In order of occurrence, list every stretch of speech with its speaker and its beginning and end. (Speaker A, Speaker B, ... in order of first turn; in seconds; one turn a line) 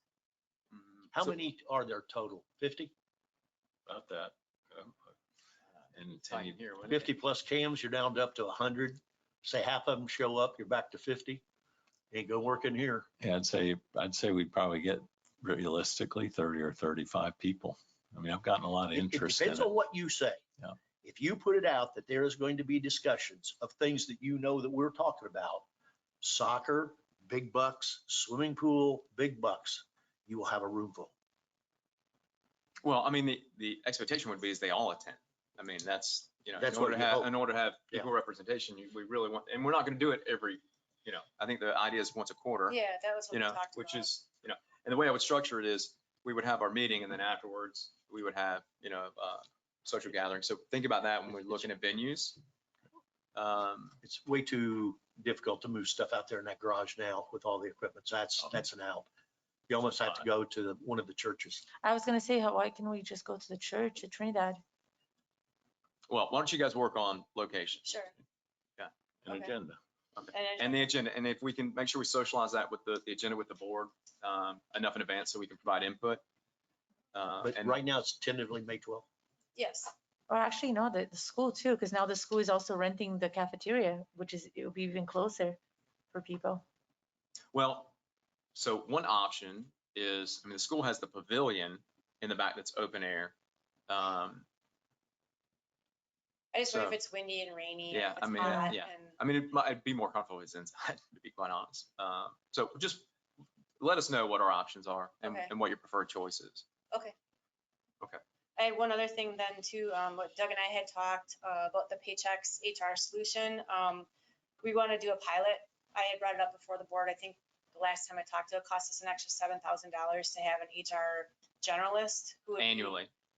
Speaker A: 0.7-1.4
Speaker B: 1.1-2.9
Speaker C: 3.9-5.1
Speaker C: 5.9-6.6
Speaker A: 6.0-7.1
Speaker B: 6.9-11.4
Speaker B: 12.1-13.1
Speaker C: 13.2-19.7
Speaker B: 18.9-20.4
Speaker B: 21.0-25.7
Speaker B: 26.2-31.1
Speaker A: 32.8-42.8
Speaker B: 36.6-37.3
Speaker D: 42.7-44.1
Speaker A: 43.3-52.4
Speaker A: 53.4-54.0
Speaker B: 54.0-59.1
Speaker B: 59.7-61.6
Speaker E: 61.8-64.6
Speaker A: 66.1-67.9
Speaker D: 67.8-68.1
Speaker C: 69.2-69.8
Speaker D: 69.3-69.5
Speaker A: 70.2-76.2
Speaker D: 70.3-70.9
Speaker A: 77.1-77.8
Speaker B: 77.4-79.1
Speaker D: 79.6-79.9
Speaker E: 80.3-85.6
Speaker E: 86.1-86.6
Speaker A: 87.5-87.9
Speaker A: 88.5-93.3
Speaker A: 93.9-94.5
Speaker D: 96.5-99.2
Speaker A: 96.7-97.0
Speaker A: 97.9-103.1
Speaker E: 98.4-98.7
Speaker A: 103.8-106.7
Speaker D: 105.2-105.5
Speaker D: 106.9-107.2
Speaker D: 108.6-114.1
Speaker D: 114.6-123.0
Speaker A: 122.6-123.1